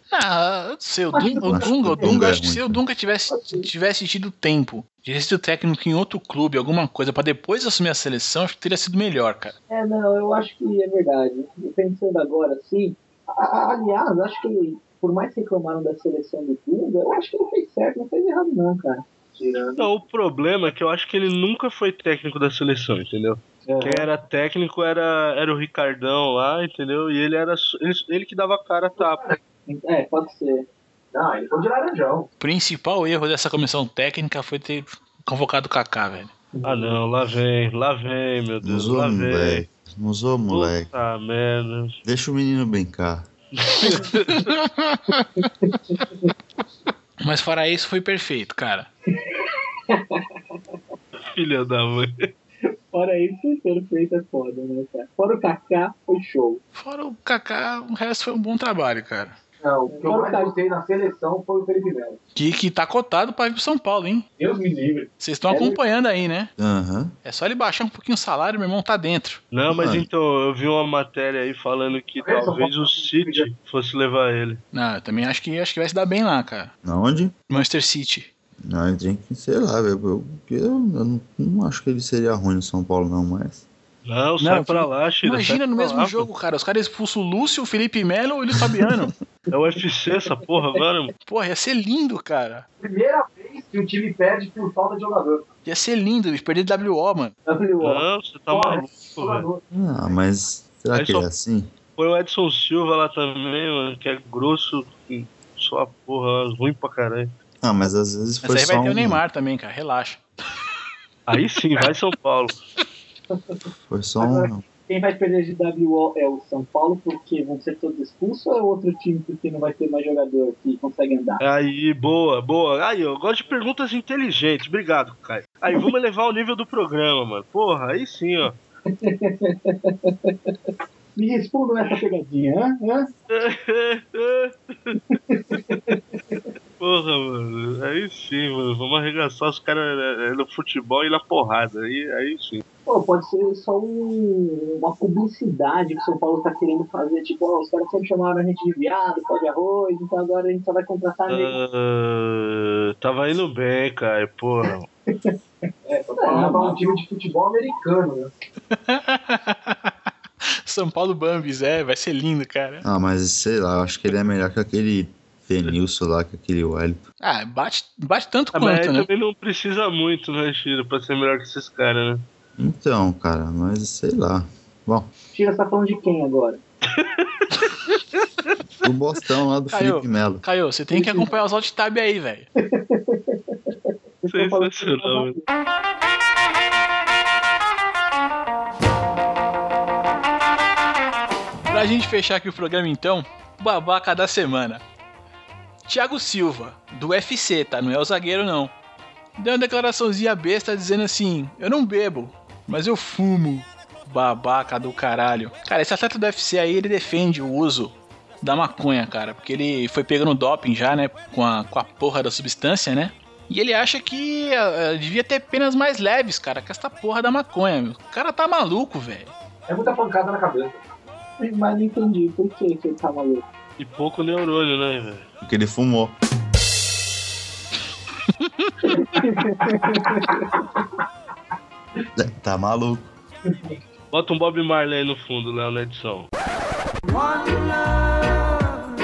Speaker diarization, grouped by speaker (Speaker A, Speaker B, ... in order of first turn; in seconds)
Speaker A: 0.1-9.6, 32.4-36.3, 44.3-45.5, 47.2-48.9, 56.8-59.4, 62.4-64.3, 65.2-66.5, 67.2-69.4, 74.7-76.7, 77.5-78.3, 84.4-89.1, 91.3-92.7, 95.7-97.3, 108.4-110.2, 158.7-162.8, 167.2-169.1, 179.7-182.5, 191.7-194.8, 195.9-198.7, 199.4-219.3, 228.4-228.8
Speaker B: 1.1-2.1, 3.3-3.7, 9.7-19.9, 29.7-30.7, 45.6-46.3, 49.1-50.8, 52.6-56.6, 59.9-60.5, 65.5-65.8, 97.5-98.0, 114.2-121.4, 128.9-130.6, 131.2-133.1, 135.1-136.4, 142.9-151.6, 156.2-156.8, 175.3-176.6, 180.9-181.3, 182.6-185.4, 221.4-223.4, 228.9-230.6
Speaker C: 1.4-2.8, 38.6-40.9, 42.0-43.3, 66.6-67.2, 69.7-70.1, 76.8-77.3, 78.7-83.6, 99.7-101.7, 107.6-109.2, 113.9-114.6, 162.8-167.0, 172.6-175.1, 178.8-180.4, 225.4-226.2, 232.2-233.1
Speaker D: 19.8-29.2, 36.6-39.7, 40.5-42.0, 43.6-44.5, 51.2-52.3, 69.5-74.6, 84.1-86.3, 89.5-91.1, 97.8-99.5, 100.9-101.3, 102.0-107.3, 111.3-112.6, 121.4-128.6, 133.3-135.0, 136.8-142.6, 151.3-154.9, 168.5-172.2, 176.9-177.7, 184.3-185.4, 223.8-225.3, 234.1-236.3
Speaker E: 23.8-24.1, 29.0-29.4, 31.1-32.3, 59.6-62.2, 64.4-65.1, 72.2-73.5, 92.8-95.5, 98.5-99.6, 155.9-158.3, 219.7-220.8, 229.4-230.4